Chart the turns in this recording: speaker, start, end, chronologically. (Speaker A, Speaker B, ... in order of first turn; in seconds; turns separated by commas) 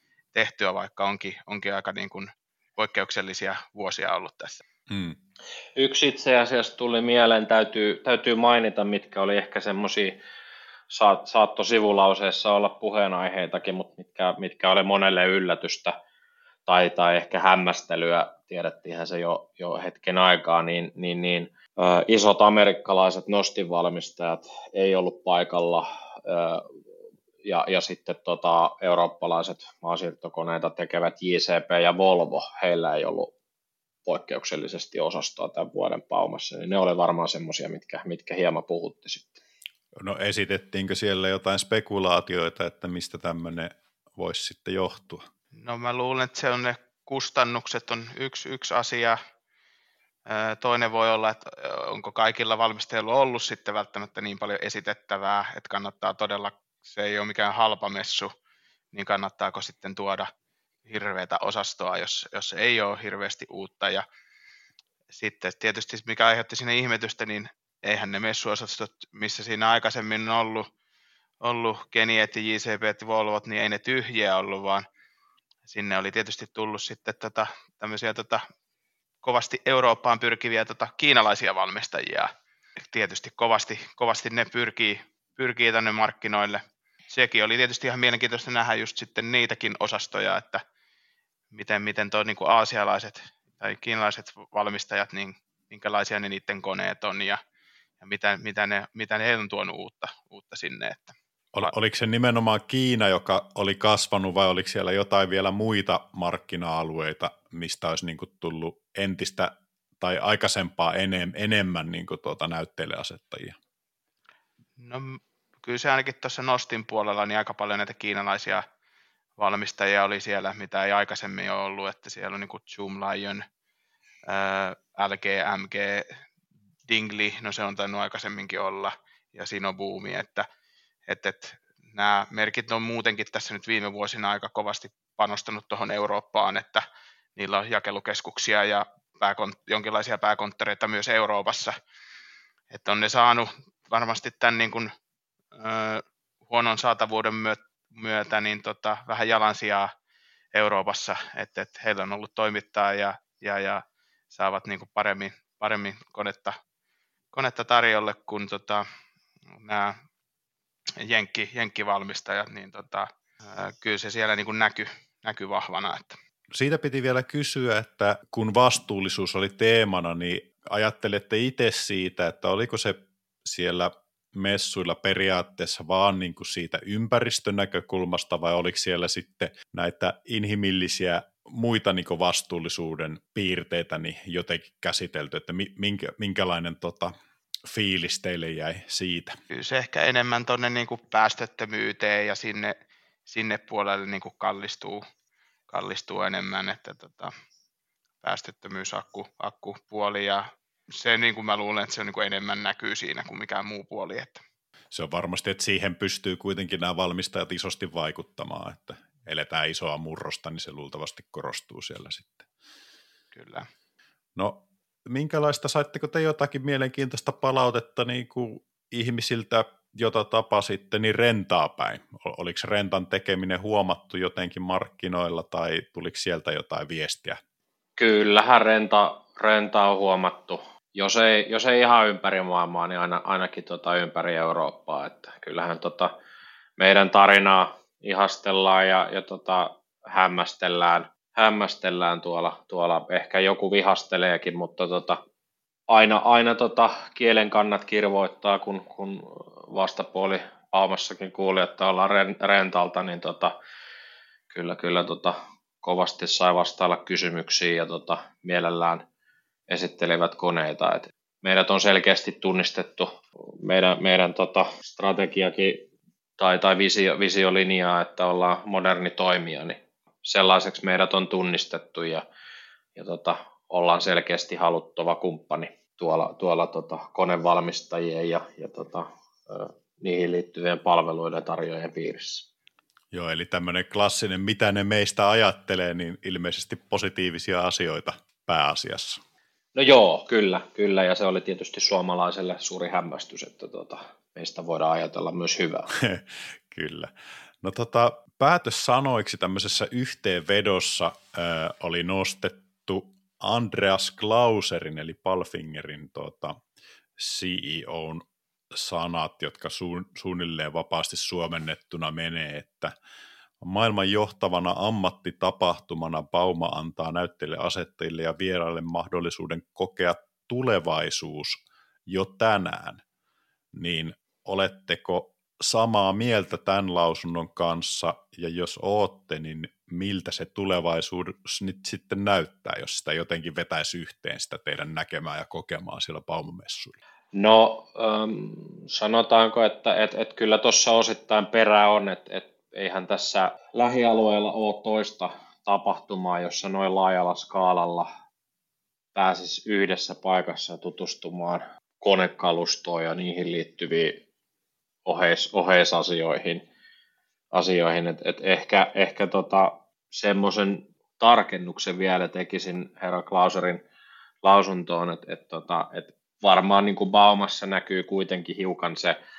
Speaker A: 0.3-4.6, Speaker B: 4.9-5.2, Speaker C: 5.8-10.2, Speaker C: 10.9-15.9, Speaker C: 16.7-26.6, Speaker C: 27.4-33.3, Speaker C: 34.0-39.4, Speaker B: 40.0-45.2, Speaker A: 45.5-49.2, Speaker A: 50.3-58.3, Speaker A: 58.9-60.3, Speaker A: 60.9-64.0, Speaker A: 65.1-70.7, Speaker A: 71.4-74.8, Speaker A: 75.7-78.4, Speaker A: 79.2-90.6, Speaker A: 91.5-97.4, Speaker A: 98.0-101.7, Speaker B: 101.5-113.5, Speaker A: 114.8-118.6, Speaker A: 119.4-123.4, Speaker A: 124.3-126.1, Speaker A: 126.9-130.4, Speaker A: 131.1-136.8, Speaker A: 137.3-141.7, Speaker A: 142.7-144.9, Speaker A: 145.5-149.9, Speaker A: 150.5-156.6, Speaker A: 157.3-158.8, Speaker A: 159.6-159.9, Speaker A: 161.0-166.2, Speaker B: 166.5-187.1, Speaker B: 187.7-189.3, Speaker A: 189.5-192.7, Speaker A: 193.3-195.0, Speaker A: 195.7-197.3, Speaker A: 198.2-204.4, Speaker B: 204.9-212.4, Speaker A: 213.3-213.7, Speaker B: 214.3-227.4, Speaker C: 228.0-236.1, Speaker C: 236.8-245.2, Speaker C: 245.9-253.5, Speaker C: 254.5-259.0, Speaker C: 259.7-265.9, Speaker C: 266.4-272.2, Speaker C: 272.9-282.4, Speaker B: 283.1-289.2, Speaker C: 289.7-295.9, Speaker B: 296.0-306.6, Speaker B: 307.2-312.9, Speaker B: 313.6-323.0, Speaker B: 323.7-336.9, Speaker C: 337.3-348.1, Speaker C: 349.1-354.2, Speaker C: 355.1-356.6, Speaker C: 357.5-363.8, Speaker C: 364.4-369.2